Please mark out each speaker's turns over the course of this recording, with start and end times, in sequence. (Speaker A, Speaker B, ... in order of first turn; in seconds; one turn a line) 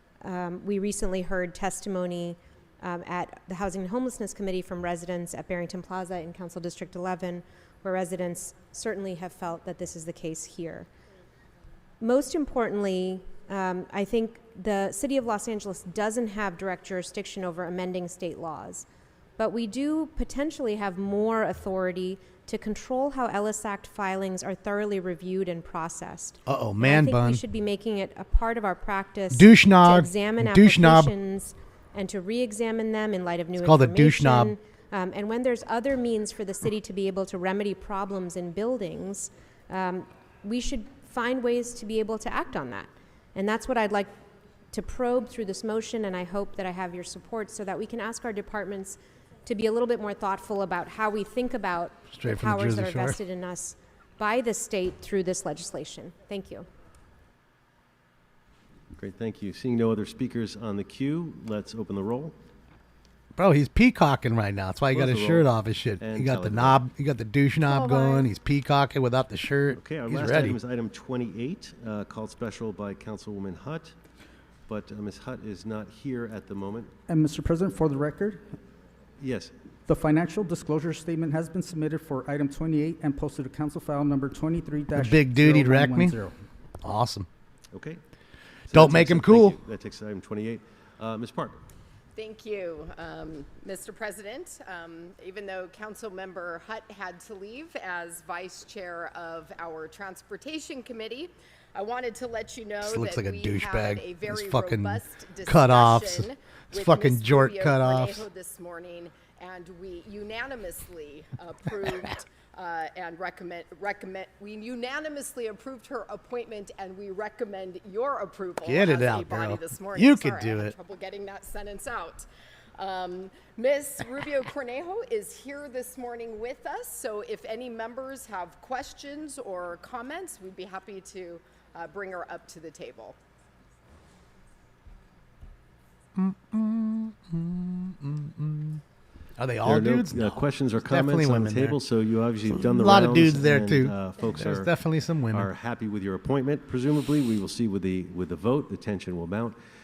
Speaker A: 0.2-10.9
Speaker A: 12.0-18.9
Speaker A: 19.4-44.1
Speaker B: 26.5-27.4
Speaker B: 29.3-31.1
Speaker B: 33.6-34.5
Speaker A: 44.7-56.7
Speaker B: 52.1-53.2
Speaker C: 58.9-62.4
Speaker B: 63.4-70.6
Speaker C: 64.9-66.8
Speaker D: 67.7-68.2
Speaker C: 69.7-73.9
Speaker C: 74.7-76.9
Speaker E: 77.1-78.4
Speaker C: 79.2-79.5
Speaker E: 79.9-86.3
Speaker B: 84.9-86.2
Speaker B: 86.8-87.3
Speaker C: 87.7-88.0
Speaker C: 88.7-91.6
Speaker B: 88.7-89.6
Speaker D: 92.1-133.2
Speaker B: 102.8-108.3
Speaker B: 118.6-120.7
Speaker B: 136.2-138.8
Speaker B: 139.4-141.8
Speaker C: 139.6-144.8
Speaker B: 142.5-145.5
Speaker C: 145.3-149.6